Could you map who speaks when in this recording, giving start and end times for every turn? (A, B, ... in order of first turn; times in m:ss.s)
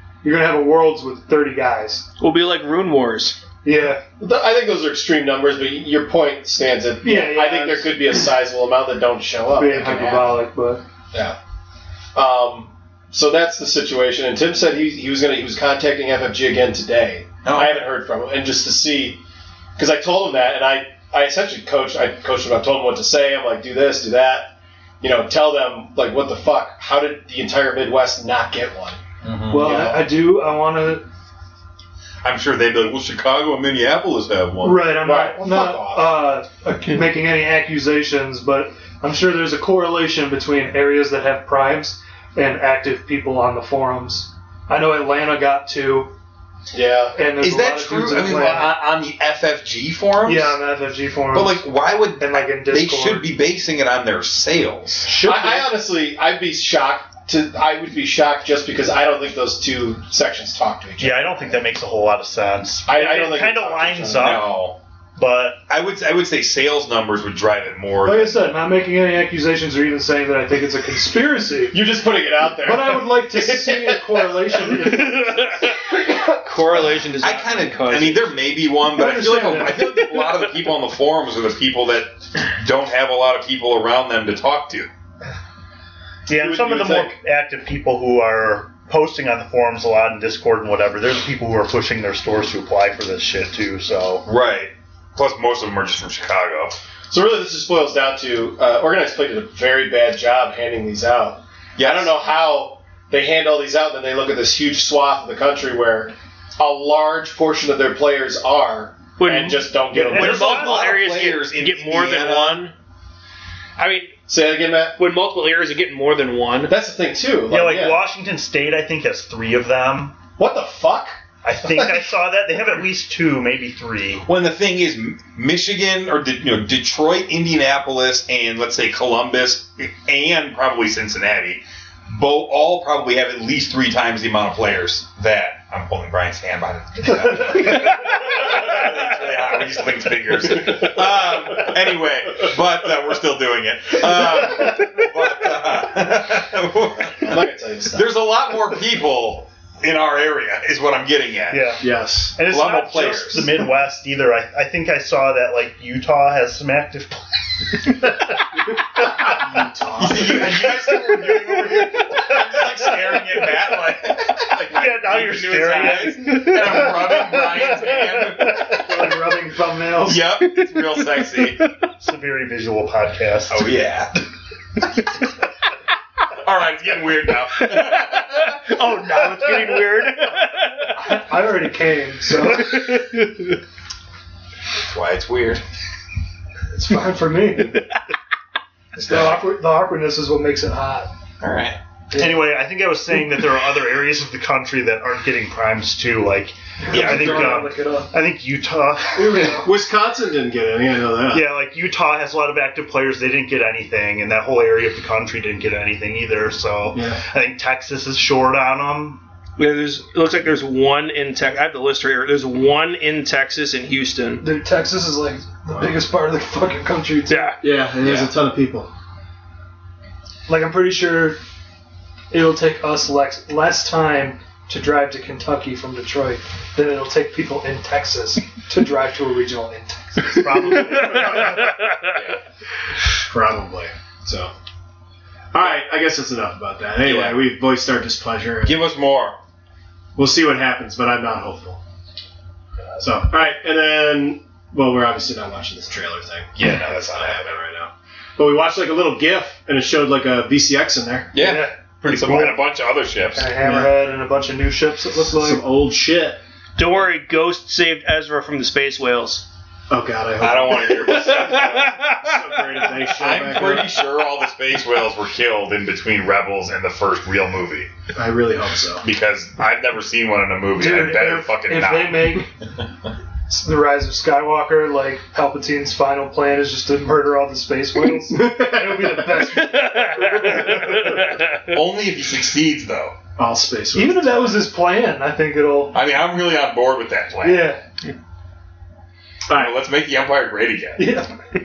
0:00.2-0:02.0 A
0:02.2-0:03.4 B
0:03.6-0:04.0 A
0:04.2-0:10.4 C
0:07.0-0:08.0 A
0:09.6-0:10.8 A
0:11.1-0:11.4 C
0:12.1-0:19.2 C
0:17.4-0:17.9 D
0:19.8-0:30.1 C
0:29.2-0:29.9 D
0:29.5-0:31.0 A
0:32.2-0:34.8 D
0:34.6-0:46.1 A
0:35.0-0:36.2 C
0:46.7-0:47.2 C
0:47.2-0:48.7 A
0:47.4-0:50.6 D
0:50.2-0:53.3 A
0:51.3-0:55.1 D
0:55.1-0:55.5 A
0:55.2-0:55.6 E
0:55.2-1:01.6 C
1:01.0-1:04.6 E
1:02.8-1:04.4 C
1:04.2-1:04.8 D
1:05.2-1:05.6 E
1:05.7-1:08.5 D
1:08.0-1:11.8 A
1:11.7-1:14.6 C
1:12.6-1:15.7 A
1:15.0-1:15.7 B
1:15.9-1:16.7 C
1:16.4-1:18.3 B
1:17.2-1:24.9 D
1:19.0-1:20.0 A
1:26.3-1:34.2 E
1:26.3-1:27.2 C
1:34.2-1:36.8 D
1:37.1-1:50.6 C
1:41.8-1:42.1 D
1:49.2-1:52.7 B
1:50.1-1:52.7 D
1:50.3-1:50.7 E
1:53.8-1:54.2 B
1:54.3-1:55.0 C
1:55.0-1:56.7 B
1:56.6-1:58.0 C
1:57.5-2:00.2 E
2:00.4-2:02.1 C
2:01.4-2:04.2 E
2:04.3-2:31.7 D
2:27.2-2:28.1 C
2:31.5-2:39.4 E
2:31.8-2:32.4 C
2:32.5-2:33.6 D
2:39.1-2:40.6 C
2:40.0-2:49.1 D
2:40.4-2:42.9 E
2:44.7-2:46.9 E
2:48.4-2:48.7 E
2:48.7-2:50.2 A
2:50.0-2:51.6 D
2:52.0-2:53.7 E
2:53.5-2:54.2 D
2:56.4-2:58.6 D
2:58.5-3:00.9 B
3:00.9-3:02.9 A
3:02.5-3:03.5 B
3:04.8-3:05.6 D
3:06.7-3:07.8 A
3:09.0-3:09.4 D
3:09.0-3:11.1 A
3:11.4-3:11.8 D
3:12.1-3:12.4 A
3:12.1-3:19.6 E
3:16.9-3:17.7 D
3:16.9-3:18.1 A
3:19.1-3:19.7 A
3:19.5-3:21.5 C
3:21.3-3:29.2 E
3:26.9-3:27.2 C
3:29.6-3:34.4 B
3:34.4-3:37.5 A
3:37.3-3:37.6 B
3:37.6-3:38.9 C
3:38.0-3:38.3 D
3:40.5-3:41.4 A
3:42.3-3:50.8 A
3:50.3-3:51.6 E
3:53.2-3:54.5 C
3:55.5-3:58.8 C
3:57.0-3:57.4 D
3:58.6-3:59.4 D
4:00.2-4:01.8 C
4:03.0-4:11.3 C
4:06.6-4:07.6 D
4:11.3-4:13.5 D
4:11.4-4:11.7 A
4:12.0-4:12.6 E
4:13.3-4:15.6 A
4:13.6-4:13.9 C
4:15.2-4:16.4 C
4:16.8-4:19.4 B
4:19.9-4:24.0 C
4:20.4-4:21.9 D
4:21.1-4:22.3 B
4:23.1-4:27.9 D
4:28.1-4:29.0 C
4:29.0-4:32.5 D
4:30.8-4:32.5 A
4:33.5-4:41.0 A
4:38.3-4:39.5 C
4:39.5-4:41.8 B
4:41.7-4:43.1 D
4:43.4-4:44.7 C
4:43.9-4:45.9 A
4:45.9-4:47.7 D
4:47.4-4:47.8 A
4:49.5-4:49.8 C
4:49.5-4:51.2 D
4:51.0-4:51.3 A